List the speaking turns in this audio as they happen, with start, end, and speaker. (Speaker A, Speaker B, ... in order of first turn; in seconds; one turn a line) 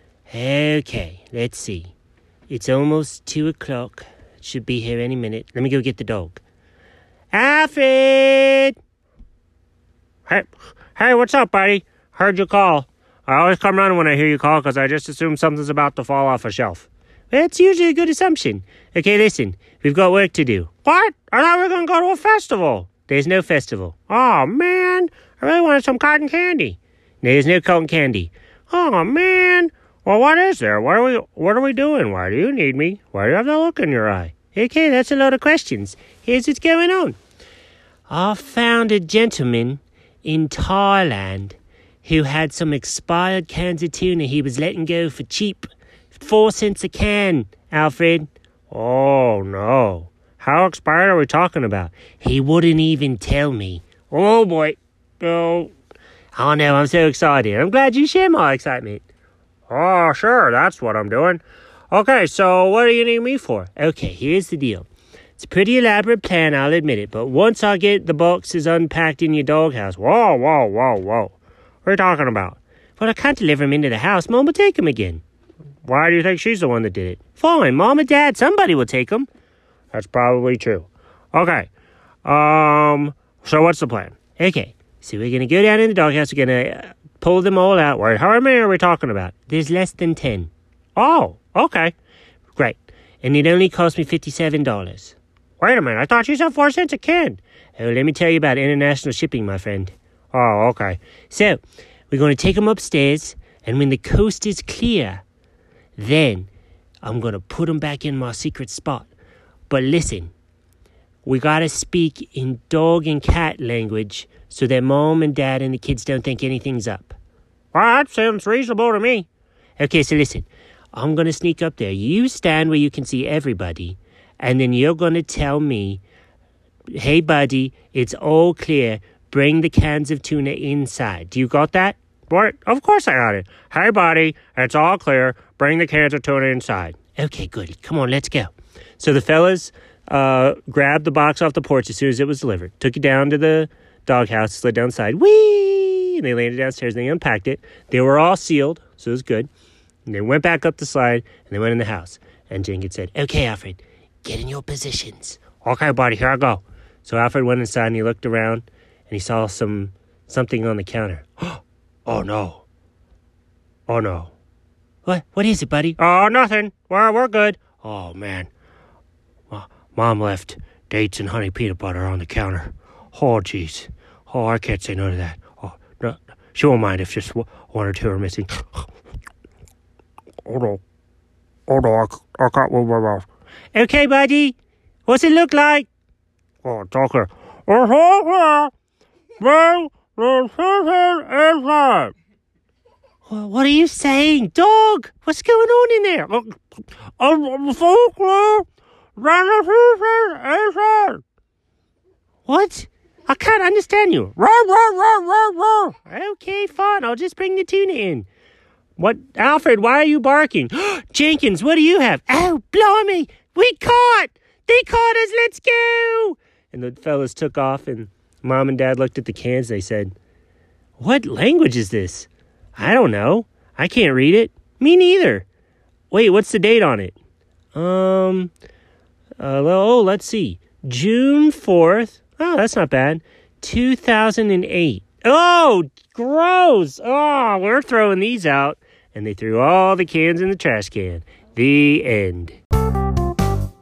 Speaker A: 0.3-1.9
Speaker A: 2.5-6.4
Speaker A: 7.3-8.8
Speaker A: 10.3-37.2
Speaker A: 38.1-55.7
Speaker A: 56.3-59.0
Speaker A: 59.7-75.2
Speaker A: 75.8-79.3
Speaker A: 79.9-81.7
Speaker A: 82.2-91.9
Speaker A: 92.5-105.2
Speaker A: 106.0-106.5
Speaker A: 107.0-109.1
Speaker A: 109.7-110.3
Speaker A: 111.2-117.2
Speaker A: 117.7-126.0
Speaker A: 126.9-149.5
Speaker A: 150.1-162.6
Speaker A: 163.9-164.3
Speaker A: 165.0-168.5
Speaker A: 169.5-178.8
Speaker A: 180.4-180.8
Speaker A: 181.7-185.9
Speaker A: 186.6-188.7
Speaker A: 189.4-192.1
Speaker A: 193.2-196.6
Speaker A: 197.2-198.7
Speaker A: 199.2-201.2
Speaker A: 202.4-208.3
Speaker A: 209.0-220.1
Speaker A: 221.0-225.4
Speaker A: 226.1-227.2
Speaker A: 227.7-228.5
Speaker A: 229.4-242.6